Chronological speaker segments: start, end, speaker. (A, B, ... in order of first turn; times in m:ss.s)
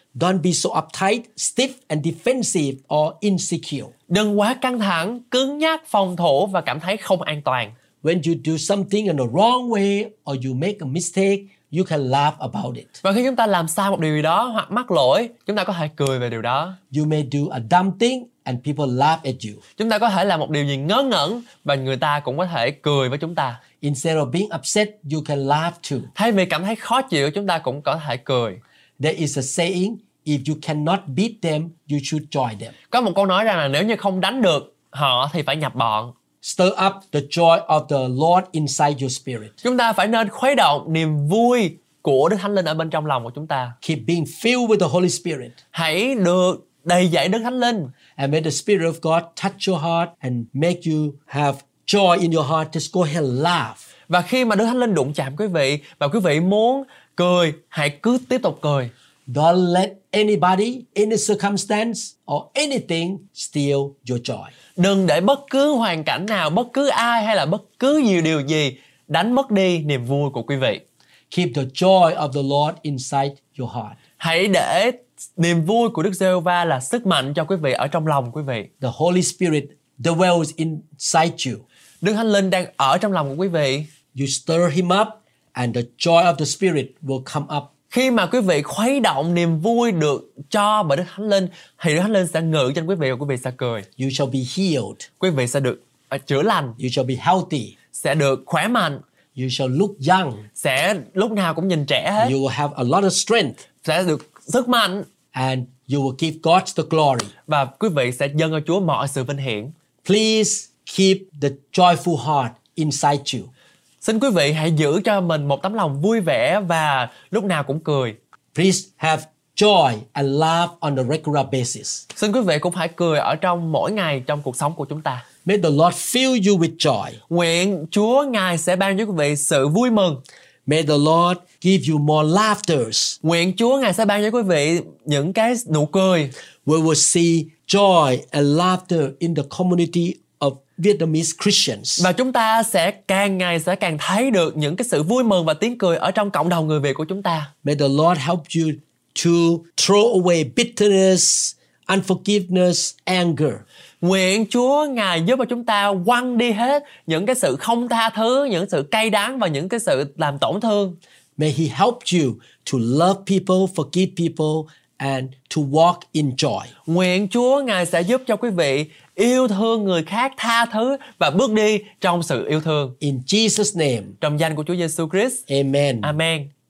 0:00.2-0:03.9 A
0:04.1-0:07.8 B
0:08.0-0:13.0 A
0:13.0-0:16.8 B
0:16.9-0:19.6 A
0:19.8-0:23.6 B
0:23.8-0:26.1 A
0:26.2-0:28.6 B
0:29.0-0:32.8 A
0:32.9-0:36.1 B
0:36.4-0:39.5 A
0:39.6-0:43.8 B
0:43.8-0:45.6 A
0:45.7-0:47.9 B
0:48.2-0:53.8 A
0:54.1-0:58.9 B
0:59.3-1:04.5 A
1:04.8-1:10.8 B
1:11.3-1:14.0 A
1:14.2-1:18.7 B
1:18.8-1:21.6 A
1:22.0-1:23.9 B
1:24.2-1:27.7 A
1:27.9-1:33.9 B
1:34.0-1:35.1 A
1:35.2-1:36.8 B
1:36.8-1:37.8 A
1:37.9-1:39.0 B
1:39.4-1:40.5 A
1:40.6-1:42.4 B
1:42.2-1:43.6 A
1:43.8-1:45.1 B
1:45.3-1:47.3 A
1:47.5-1:49.7 B
1:50.0-1:53.5 A
1:54.0-1:58.2 B
1:58.5-2:02.1 A
2:02.2-2:05.2 B
2:05.4-2:07.2 A
2:07.3-2:10.2 B
2:10.7-2:13.2 A
2:13.2-2:16.3 B
2:16.6-2:22.1 A
2:22.0-2:27.5 B
2:27.6-2:33.6 A
2:34.0-2:41.0 B
2:41.4-2:46.7 A
2:46.9-2:53.0 B
2:53.0-2:54.2 A
2:54.2-2:55.4 B
2:55.5-2:56.2 A
2:56.0-2:56.5 B